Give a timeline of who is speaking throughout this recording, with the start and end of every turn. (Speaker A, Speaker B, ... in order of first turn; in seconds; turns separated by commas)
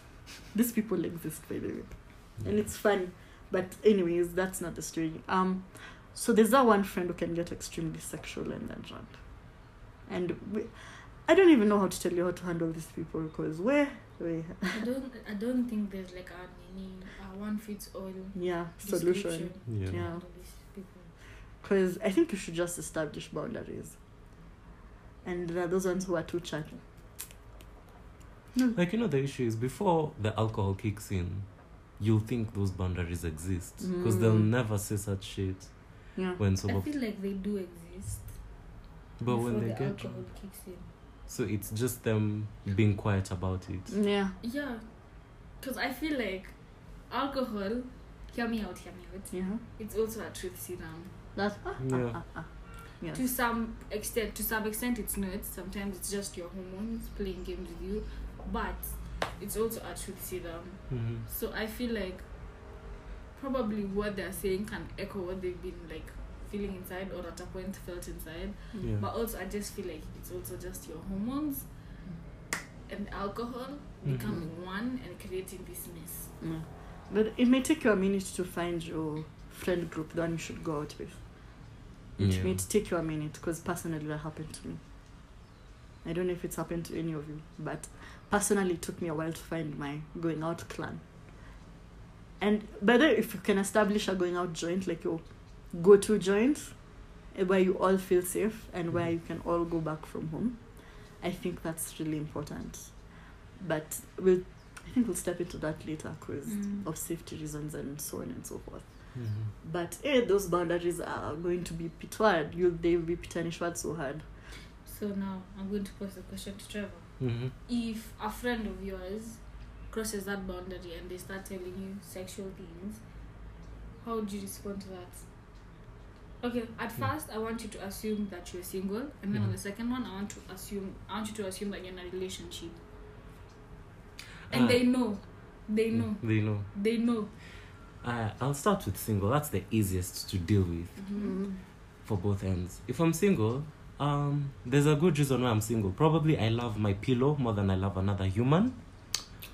Speaker A: 0.5-14.8, Speaker B: 14.7-21.1, Speaker A: 18.3-20.2, Speaker C: 19.7-20.0, Speaker A: 21.6-24.0, Speaker A: 25.2-26.8, Speaker C: 28.7-36.9, Speaker A: 33.8-34.5, Speaker A: 36.1-36.4, Speaker B: 36.6-38.4, Speaker C: 39.2-40.2, Speaker B: 39.3-40.9, Speaker C: 41.3-44.0, Speaker A: 43.9-44.3, Speaker B: 44.4-46.6, Speaker B: 47.1-51.1, Speaker A: 49.3-49.6, Speaker A: 51.3-53.2, Speaker C: 51.8-52.2, Speaker B: 53.1-62.3, Speaker C: 60.9-61.2, Speaker B: 63.3-71.7, Speaker B: 72.9-76.3, Speaker C: 74.0-74.4, Speaker A: 76.4-81.5, Speaker A: 82.2-84.8, Speaker C: 82.2-82.6, Speaker A: 86.0-91.0, Speaker A: 92.4-114.2, Speaker B: 106.5-106.8, Speaker C: 109.1-109.5, Speaker B: 114.8-123.0, Speaker C: 117.2-117.5, Speaker B: 124.0-125.2, Speaker B: 126.4-132.8, Speaker C: 134.5-134.9, Speaker B: 134.5-137.3, Speaker C: 135.9-136.7, Speaker C: 138.0-141.0, Speaker B: 140.9-141.3, Speaker A: 141.2-141.6, Speaker C: 142.0-148.8